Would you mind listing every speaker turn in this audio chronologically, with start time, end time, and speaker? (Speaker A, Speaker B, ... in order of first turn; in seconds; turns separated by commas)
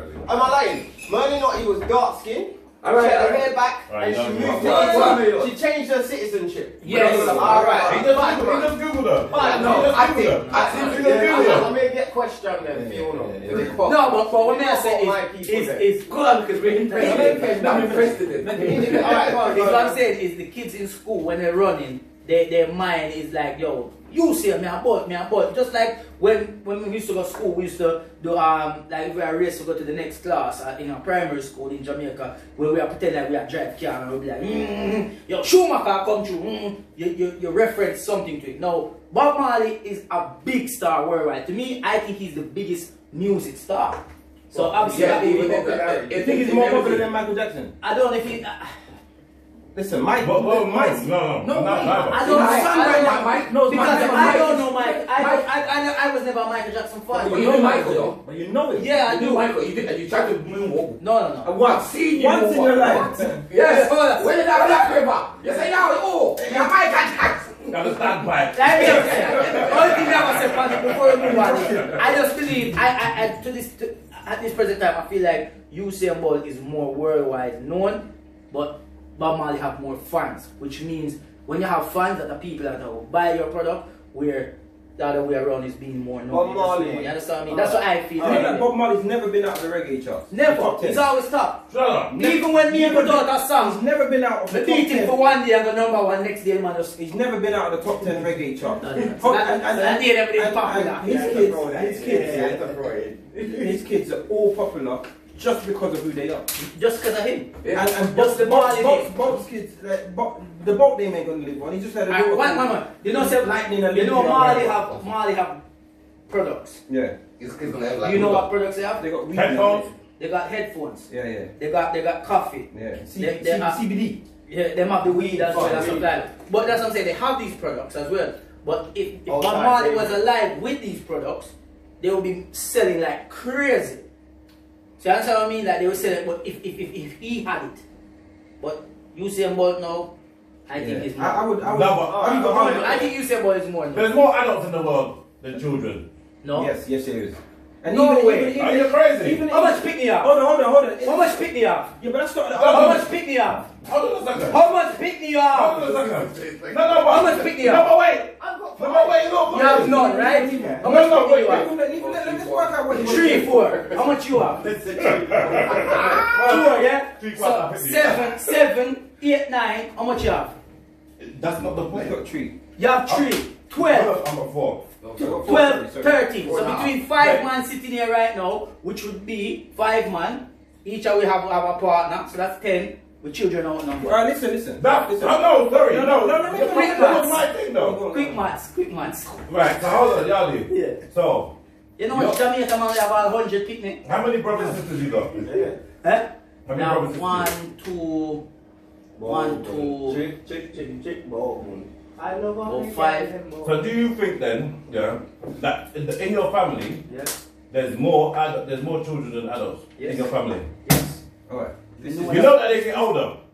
Speaker A: 0.2-15.9, Speaker B: 2.8-3.5, Speaker C: 3.9-5.2, Speaker D: 4.4-5.3, Speaker B: 4.6-5.5, Speaker E: 4.7-5.1, Speaker E: 6.8-7.9, Speaker B: 6.8-8.0, Speaker C: 7.8-11.7, Speaker E: 9.3-9.9, Speaker B: 9.3-11.7, Speaker E: 10.5-10.9, Speaker B: 13.5-13.8, Speaker E: 13.8-16.1, Speaker B: 16.1-19.6, Speaker D: 17.0-18.5, Speaker A: 17.0-17.4, Speaker E: 17.0-17.4, Speaker E: 18.5-45.5, Speaker A: 18.6-20.1, Speaker D: 44.5-45.2, Speaker A: 44.6-46.2, Speaker B: 44.9-47.1, Speaker D: 46.1-47.7, Speaker E: 47.8-48.7, Speaker D: 49.7-51.1, Speaker C: 50.2-52.6, Speaker E: 51.4-58.1, Speaker B: 52.1-55.4, Speaker D: 52.7-53.1, Speaker D: 53.7-55.3, Speaker D: 57.1-58.9, Speaker B: 57.1-58.2, Speaker E: 58.8-59.5, Speaker B: 59.0-68.1, Speaker E: 61.0-61.6, Speaker D: 61.5-63.4, Speaker E: 62.9-64.9, Speaker D: 66.4-66.7, Speaker C: 67.7-71.9, Speaker E: 68.5-88.7, Speaker B: 68.7-70.4, Speaker D: 71.2-72.2, Speaker A: 86.3-88.6, Speaker D: 88.2-91.1, Speaker E: 90.3-93.8, Speaker C: 91.7-92.5, Speaker D: 92.5-95.3, Speaker E: 94.5-96.9, Speaker D: 96.9-102.7, Speaker E: 98.8-101.5, Speaker A: 101.0-103.5, Speaker D: 103.5-106.5, Speaker E: 106.6-107.5, Speaker D: 107.7-115.0, Speaker E: 108.1-109.2, Speaker E: 112.1-115.6, Speaker E: 116.3-116.8, Speaker D: 116.9-117.2, Speaker B: 117.4-118.5, Speaker E: 118.0-119.0, Speaker D: 118.1-118.4, Speaker D: 119.0-119.9, Speaker C: 119.3-119.9, Speaker E: 120.2-123.8, Speaker D: 121.1-121.5, Speaker D: 122.7-124.2, Speaker E: 124.5-134.0, Speaker D: 125.0-126.0, Speaker A: 125.5-126.0, Speaker A: 129.3-130.2, Speaker E: 135.0-137.8, Speaker E: 138.6-140.1, Speaker E: 140.7-141.4, Speaker D: 140.8-143.0, Speaker C: 141.6-143.0, Speaker A: 142.1-143.1, Speaker E: 142.4-144.2, Speaker C: 143.9-146.0, Speaker E: 146.4-146.7, Speaker D: 146.5-151.5, Speaker E: 147.9-148.6, Speaker C: 148.6-149.4, Speaker E: 149.5-150.3, Speaker E: 151.0-151.9, Speaker D: 152.0-153.1, Speaker E: 152.6-153.7, Speaker C: 152.6-153.1, Speaker C: 153.8-154.6, Speaker E: 154.4-155.9, Speaker C: 155.5-160.1, Speaker B: 156.0-157.4, Speaker E: 157.1-157.9, Speaker A: 158.4-159.4, Speaker E: 159.5-161.7, Speaker D: 159.6-163.8, Speaker C: 160.8-161.7, Speaker B: 161.9-164.1, Speaker E: 162.9-164.7, Speaker C: 165.0-168.4, Speaker B: 165.3-166.3, Speaker E: 166.2-170.5, Speaker C: 171.2-172.2, Speaker D: 171.9-172.6, Speaker E: 172.8-174.2, Speaker C: 173.1-174.8, Speaker B: 175.0-175.6, Speaker D: 175.2-176.3, Speaker E: 175.5-184.2, Speaker C: 176.5-177.5, Speaker D: 184.0-188.4, Speaker C: 184.8-188.0, Speaker E: 185.9-187.4, Speaker E: 188.1-189.4, Speaker C: 189.5-191.5, Speaker E: 190.7-191.0, Speaker E: 192.0-194.0, Speaker C: 192.1-192.4, Speaker C: 194.0-195.5, Speaker A: 195.5-195.8, Speaker E: 196.0-198.4, Speaker C: 196.7-197.5, Speaker A: 199.2-203.9, Speaker E: 199.2-200.2, Speaker E: 202.7-203.3, Speaker C: 203.6-207.0, Speaker A: 207.1-207.3, Speaker C: 207.7-210.8, Speaker E: 210.0-210.3, Speaker E: 210.8-211.2, Speaker D: 211.5-212.5, Speaker E: 212.0-213.1, Speaker C: 212.2-213.4